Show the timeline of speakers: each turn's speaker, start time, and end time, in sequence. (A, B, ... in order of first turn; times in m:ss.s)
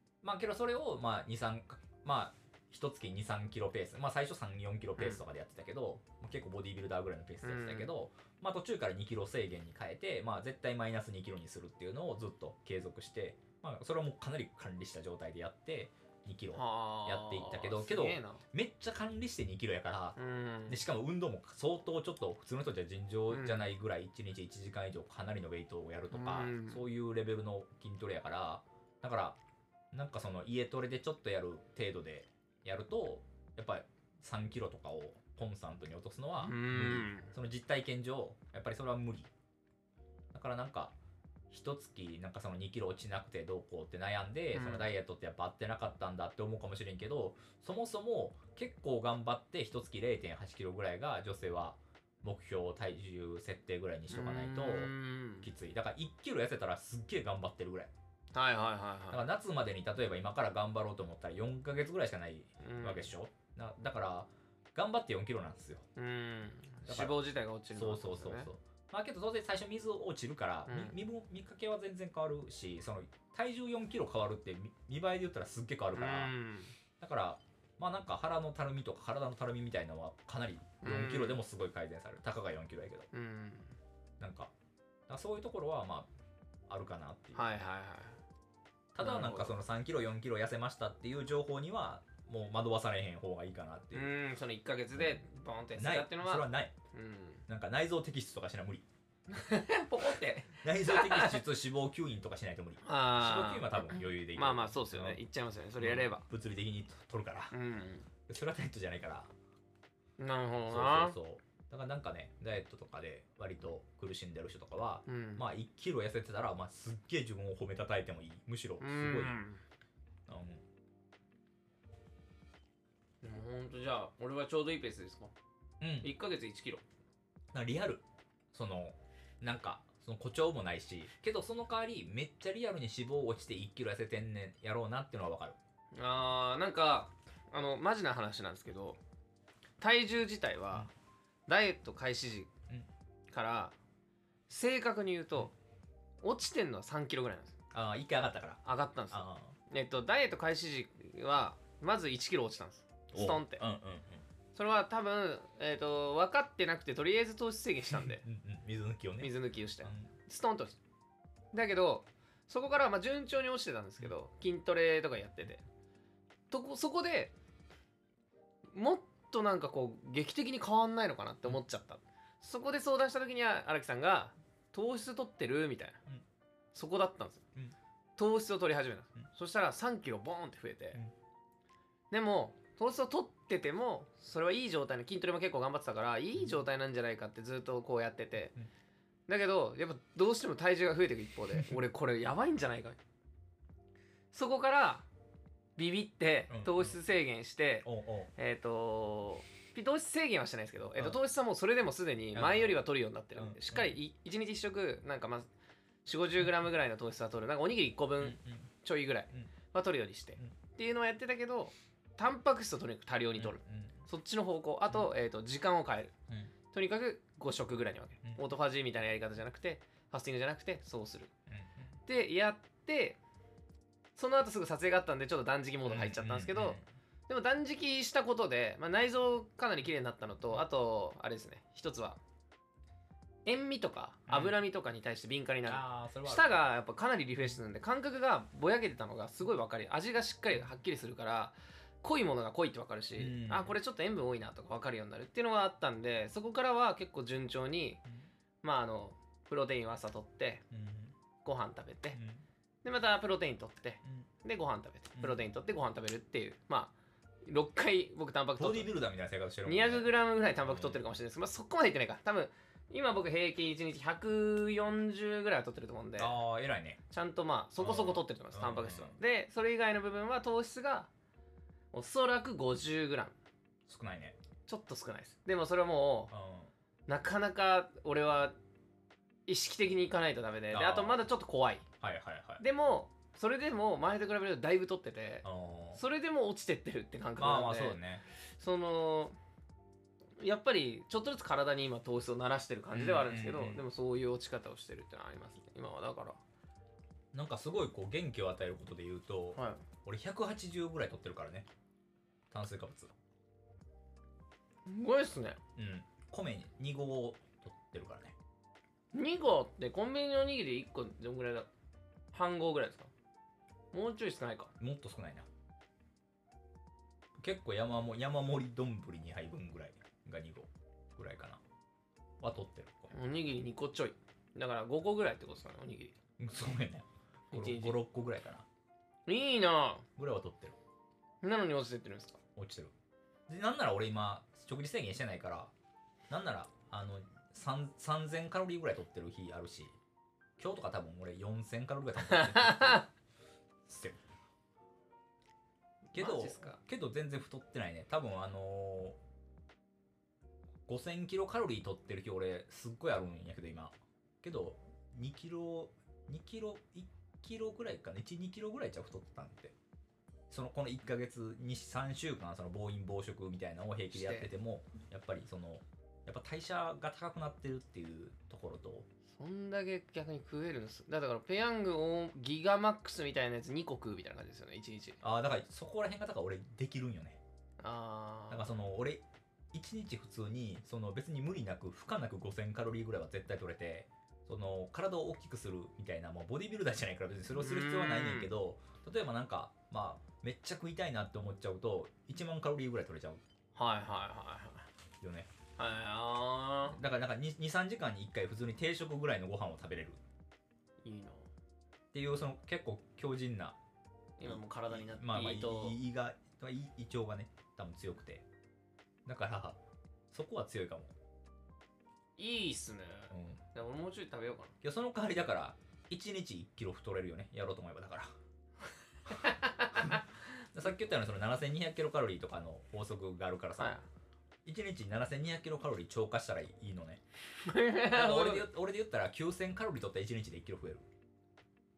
0:00.2-0:20.2 A
0:07.4-0:07.9 B
0:16.5-0:18.4 B
0:20.2-0:20.8 B
0:20.7-0:29.4 A
0:23.3-0:23.7 B
0:26.1-0:26.8 B
0:29.9-0:39.3 A
0:36.4-0:37.3 B
0:40.3-0:40.9 A
0:41.5-0:57.9 A
0:44.5-0:44.9 B
0:54.1-0:55.5 B
0:58.3-0:59.2 B
0:59.1-1:05.8 A
1:02.6-1:03.1 B
1:06.0-1:08.5 B
1:06.8-1:07.2 A
1:07.7-1:16.3 A
1:10.7-1:11.0 B
1:15.9-1:16.7 B
1:17.0-1:23.1 A
1:20.8-1:21.4 B
1:23.1-1:23.7 B
1:24.2-1:24.5 A
1:25.1-1:26.1 A
1:26.7-1:27.4 A
1:27.3-1:28.2 B
1:28.9-1:34.1 A
1:29.0-1:29.6 B
1:33.9-1:37.4 B
1:34.9-1:35.2 A
1:35.8-1:36.7 A
1:37.5-1:38.8 A
1:39.3-1:41.4 B
1:40.6-1:45.2 A
1:42.8-1:46.2 B
1:45.8-1:47.5 A
1:47.5-1:48.1 B
1:48.3-1:49.3 A
1:50.2-1:51.2 B
1:50.7-1:59.4 A
1:55.0-1:55.4 B
1:58.8-1:59.6 B
2:00.3-2:00.6 A
2:03.2-2:05.3 B
2:05.8-2:06.1 A
2:06.0-2:06.8 B
2:07.5-2:15.6 A
2:15.9-2:19.0 B
2:19.8-2:20.9 B
2:21.5-2:22.5 B
2:23.3-2:23.7 B
2:24.5-2:25.5 B
2:26.2-2:27.6 B
2:27.7-2:29.5 A
2:28.6-2:33.6 B
2:33.1-2:34.2 A
2:34.5-2:38.2 B
2:37.9-2:40.1 A
2:39.2-2:40.8 B
2:41.5-2:45.6 B
2:46.5-2:47.3 B
2:48.7-2:56.0 B
2:56.7-2:57.4 B
2:58.2-3:01.0 B
3:02.1-3:08.5 B
3:06.4-3:06.6 A
3:09.3-3:13.0 B
3:11.5-3:11.8 A
3:14.3-3:15.1 B
3:15.8-3:25.5 B
3:16.5-3:17.0 A
3:17.8-3:18.3 A
3:22.3-3:22.8 A
3:23.3-3:24.0 A
3:26.0-3:36.1 B
3:28.2-3:28.7 A
3:33.4-3:34.0 A
3:36.7-3:41.3 B
3:41.5-3:41.9 A
3:42.0-3:43.2 B
3:44.2-3:52.2 B
3:45.8-3:46.8 A
3:53.4-4:08.0 B
3:54.3-3:54.6 A
3:55.6-3:56.6 A
4:03.2-4:03.8 A
4:08.6-4:10.6 B
4:10.7-4:11.1 A
4:11.4-4:12.2 B
4:12.1-4:12.4 A
4:12.8-4:16.9 B
4:15.2-4:15.4 A
4:17.4-4:18.9 B
4:18.6-4:20.1 A
4:19.6-4:26.4 B
4:20.6-4:21.0 A
4:26.2-4:27.0 A
4:27.1-4:31.1 B
4:27.8-4:29.2 A
4:31.9-4:33.4 B
4:33.9-4:34.4 A
4:34.7-4:36.3 B
4:36.3-4:36.7 A
4:37.1-4:38.5 B
4:39.5-4:41.8 B
4:40.7-4:41.2 A
4:42.0-4:42.6 A
4:42.6-4:48.0 B
4:45.4-4:46.0 A
4:47.4-4:48.2 A
4:48.6-4:49.4 B
4:50.4-4:56.4 B
4:52.9-4:53.8 A
4:57.3-5:01.7 A
4:59.6-4:59.8 B
5:02.5-5:03.1 A
5:04.8-5:05.6 B
5:05.8-5:08.4 A
5:09.1-5:11.7 B
5:12.3-5:13.1 B
5:13.9-5:14.7 B
5:14.8-5:15.5 A
5:17.4-5:21.6 A
5:22.4-5:23.1 A
5:23.1-5:26.1 B
5:26.4-5:28.6 A
5:27.5-5:28.0 B
5:29.3-5:30.0 B
5:30.2-5:30.8 A
5:31.4-5:32.4 B
5:32.6-5:32.9 A
5:33.5-5:35.7 A
5:36.3-5:39.9 A
5:40.6-5:43.1 A
5:42.3-5:43.0 B
5:43.8-5:44.2 A
5:46.1-5:46.8 B
5:46.1-5:49.2 A
5:50.9-5:59.7 A
6:00.5-6:09.1 A
6:04.1-6:04.5 B
6:09.3-6:15.2 B
6:15.2-6:17.4 A
6:17.8-6:18.7 B
6:18.5-6:33.4 A
6:27.5-6:28.5 B
6:33.7-6:34.9 B
6:35.2-6:35.5 A
6:35.8-6:37.0 B
6:36.8-6:40.2 A
6:41.0-6:41.5 B
6:42.1-6:43.8 A
6:44.4-6:46.0 B
6:44.4-6:48.4 A
6:49.2-6:49.8 A
6:50.3-6:51.1 A
6:52.4-6:54.7 B
6:53.3-6:53.6 A
6:54.8-6:58.3 A
6:59.3-7:00.2 B
6:59.9-7:04.0 A
7:03.8-7:04.0 B
7:04.6-7:07.2 A
7:07.6-7:08.7 B
7:08.1-7:11.0 A